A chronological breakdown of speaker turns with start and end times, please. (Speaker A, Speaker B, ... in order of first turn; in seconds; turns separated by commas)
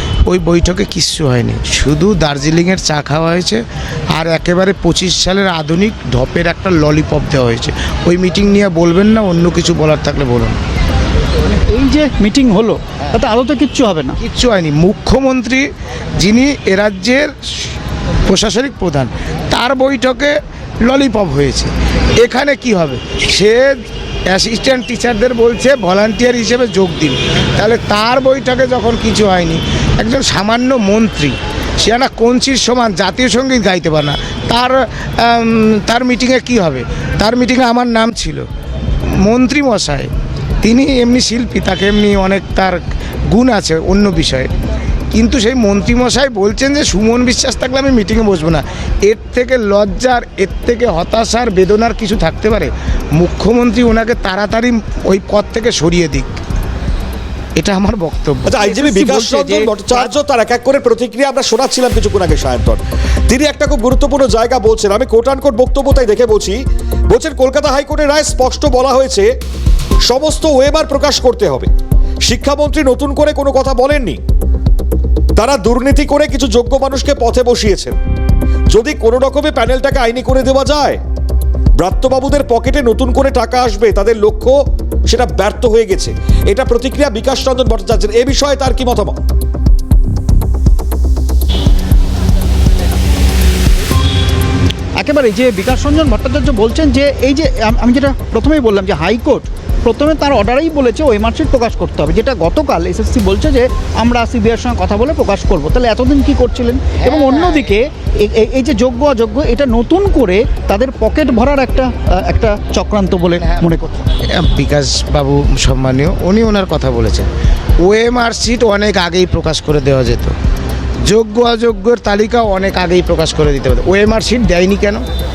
Speaker A: 0.3-3.6, Speaker A: 4.1-10.6, Speaker B: 11.4-14.2, Speaker A: 14.2-15.6, Speaker A: 16.2-17.3, Speaker A: 18.3-20.3, Speaker A: 20.9-21.7, Speaker A: 22.2-23.8, Speaker A: 24.3-38.4, Speaker A: 39.2-40.1, Speaker A: 40.6-42.8, Speaker A: 43.3-44.5, Speaker A: 45.1-56.3, Speaker A: 57.6-58.6, Speaker C: 58.5-69.3, Speaker B: 58.6-60.1, Speaker C: 70.0-71.7, Speaker C: 72.2-74.2, Speaker C: 75.4-78.0, Speaker C: 78.7-81.0, Speaker C: 81.8-89.2, Speaker B: 95.0-114.0, Speaker A: 107.0-107.8, Speaker A: 113.3-113.7, Speaker A: 114.4-117.2, Speaker A: 117.8-120.3, Speaker A: 121.1-125.0